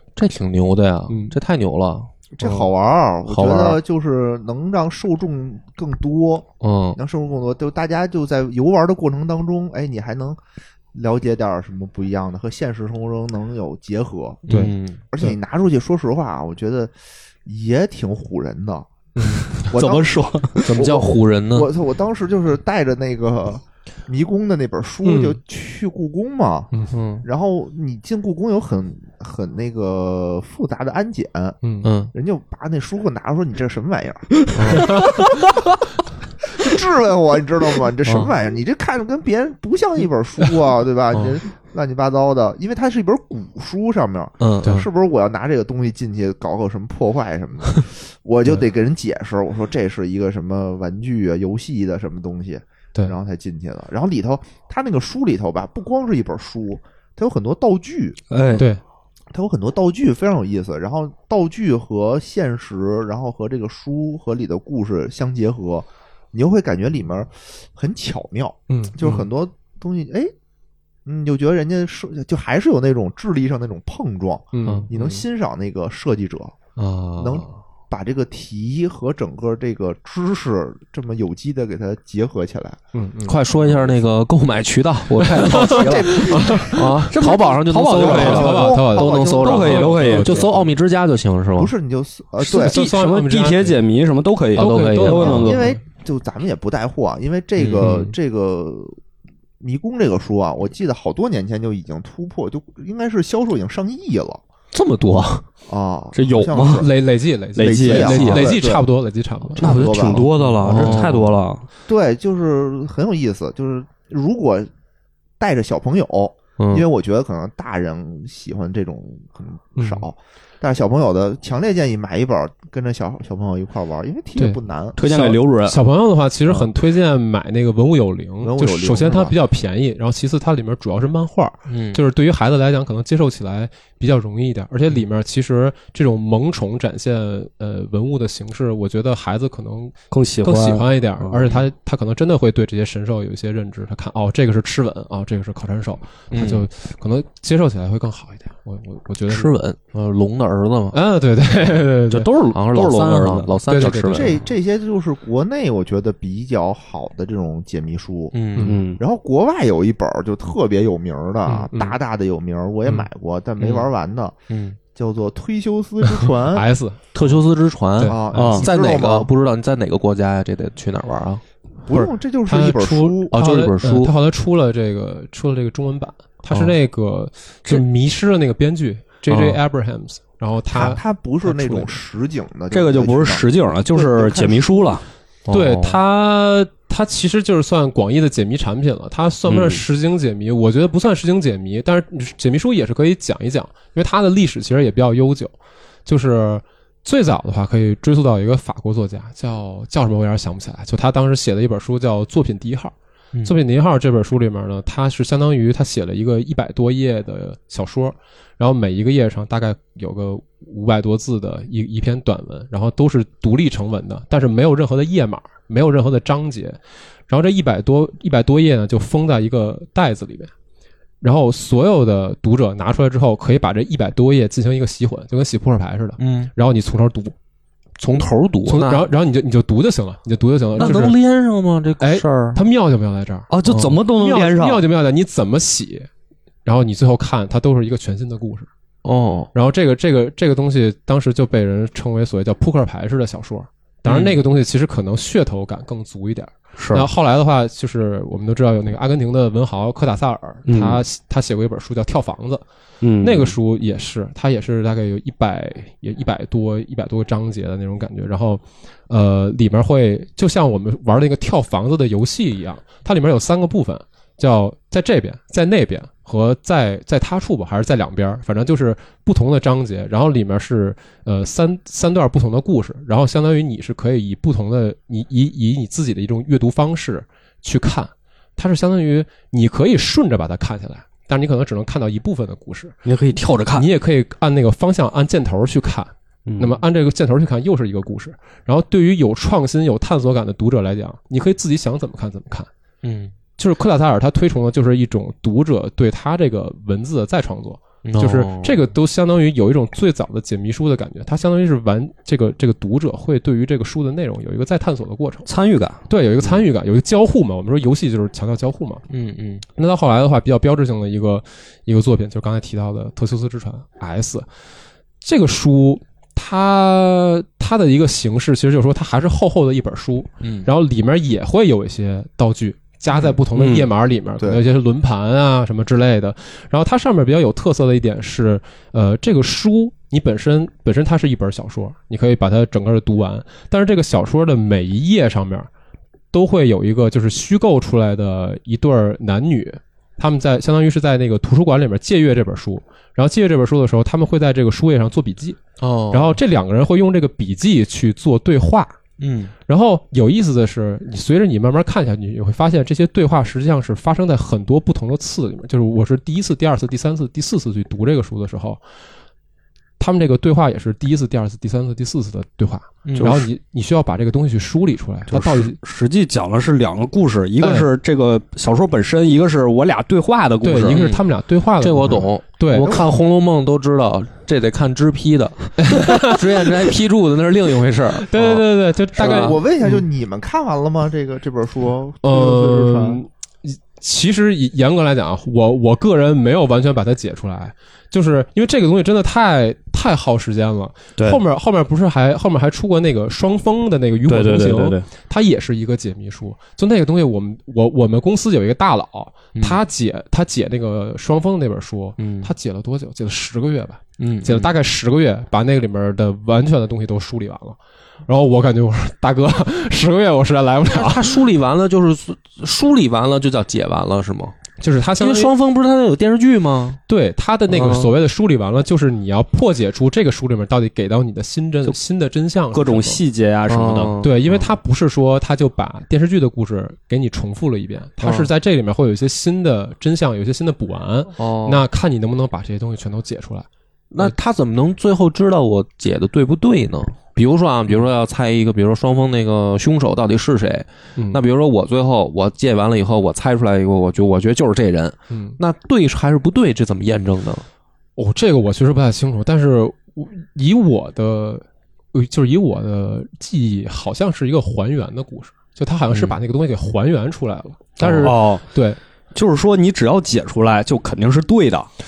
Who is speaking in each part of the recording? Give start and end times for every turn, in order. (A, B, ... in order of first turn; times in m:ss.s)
0:00.2-0:02.6 A
0:01.1-0:01.4 B
0:02.4-0:10.4 C
0:03.2-0:03.8 A
0:06.6-0:07.0 A
0:10.9-0:14.5 C
0:14.5-0:15.0 A
0:14.5-0:15.4 B
0:15.1-0:16.9 C
0:17.4-0:18.9 C
0:19.2-0:19.4 B
0:19.5-0:20.8 D
0:19.6-0:26.7 C
0:20.6-0:21.7 A
0:25.0-0:25.4 B
0:26.9-0:27.2 A
0:27.2-0:31.6 C
0:31.8-0:32.1 A
0:32.1-0:35.5 C
0:34.5-0:35.1 A
0:36.6-0:58.6 C
0:38.0-0:38.3 A
0:44.4-0:44.8 A
0:58.3-0:58.6 D
0:59.3-1:10.3 C
1:08.7-1:09.0 B
1:11.0-1:16.6 C
1:14.5-1:15.2 B
1:16.8-1:17.5 A
1:17.2-1:22.8 C
1:22.9-1:23.4 B
1:23.2-1:31.7 A
1:25.2-1:26.8 B
1:25.4-1:27.4 C
1:27.0-1:30.5 D
1:28.0-1:30.2 C
1:28.0-1:30.6 B
1:31.6-1:32.9 C
1:32.4-1:33.8 B
1:32.5-1:35.7 D
1:34.6-1:35.6 A
1:34.6-1:35.8 B
1:35.2-1:39.0 C
1:37.6-1:38.1 A
1:37.8-1:38.1 B
1:39.6-1:44.4 C
1:44.7-1:45.4 A
1:45.7-1:46.9 C
1:46.1-1:46.9 D
1:46.8-1:49.7 B
1:47.6-1:48.6 D
1:47.6-1:48.9 C
1:48.1-1:48.6 A
1:49.5-1:50.3 C
1:49.6-1:51.6 D
1:50.4-1:51.0 B
1:50.6-1:51.3 A
1:51.9-1:54.7 C
1:55.4-2:05.0 C
1:56.6-1:56.9 A
1:59.8-2:00.1 B
2:04.4-2:29.6 B
2:05.0-2:05.8 D
2:08.4-2:09.3 C
2:11.7-2:12.0 A
2:20.1-2:21.4 D
2:26.3-2:26.7 A
2:29.3-2:31.0 A
2:30.9-2:32.3 B
2:32.1-2:34.2 D
2:32.5-2:34.4 A
2:33.7-2:34.4 B
2:34.1-2:38.4 C
2:38.3-2:38.8 A
2:38.6-2:39.0 D
2:39.0-2:44.4 C
2:41.4-2:42.0 B
2:43.6-2:43.9 A
2:44.5-2:44.8 A
2:44.9-2:46.7 C
2:46.2-2:47.0 B
2:47.1-2:51.4 A
2:48.0-2:48.6 B
2:48.0-2:49.3 C
2:48.3-2:48.7 D
2:51.9-2:53.3 C
2:51.9-3:02.0 B
2:53.3-2:54.1 A
2:59.3-2:59.6 A
3:00.7-3:05.0 C
3:02.7-3:05.0 D
3:05.4-3:06.0 A
3:05.5-3:15.5 B
3:09.5-3:09.8 D
3:16.1-3:36.8 B
3:37.3-3:40.5 B
3:41.2-3:47.4 B
3:46.2-3:46.5 A
3:48.0-3:49.0 A
3:48.6-3:51.2 B
3:50.8-3:52.6 A
3:52.0-3:56.1 B
3:53.5-3:54.8 D
3:53.7-3:53.9 A
3:56.6-3:58.7 B
3:59.0-3:59.5 A
3:59.5-4:12.6 B
4:06.8-4:07.1 D
4:10.7-4:11.0 D
4:13.0-4:13.5 D
4:13.2-4:43.0 B
4:43.0-4:43.9 D
4:43.7-4:52.7 B
4:46.4-4:46.8 D
4:53.0-4:53.3 A
4:53.6-5:05.5 B
4:58.0-4:58.8 A
5:05.5-5:06.0 D
5:06.1-5:09.0 B
5:09.1-5:09.6 A
5:09.8-5:14.4 B
5:15.2-5:35.7 B
5:20.4-5:20.7 A
5:23.6-5:23.9 D
5:36.3-5:45.6 B
5:45.8-5:46.4 A
5:46.1-5:49.0 B
5:49.2-5:49.5 A
5:49.7-5:58.8 B
6:00.0-6:05.8 B
6:03.1-6:03.4 A
6:05.3-6:11.1 D
6:07.6-6:07.9 B
6:10.6-6:13.0 B
6:10.9-6:11.2 A
6:11.8-6:18.6 A
6:12.8-6:13.1 C
6:15.8-6:16.4 B
6:18.2-6:20.0 B
6:19.1-6:23.2 C
6:19.2-6:19.6 A
6:22.2-6:51.4 B
6:34.3-6:35.0 D
6:42.2-6:42.5 A
6:44.2-6:44.7 A
6:50.9-6:54.6 A
6:54.8-6:55.5 B
6:55.2-6:57.0 A
6:57.1-7:03.2 B
6:57.7-6:58.1 A
7:02.7-7:04.1 D
7:03.7-7:04.7 A
7:04.2-7:13.7 B
7:08.2-7:08.5 A
7:11.4-7:11.8 A
7:14.1-7:27.6 A
7:21.2-7:21.4 B
7:25.3-7:25.6 B
7:28.2-7:39.0 B
7:38.0-7:38.7 D
7:39.3-7:41.9 D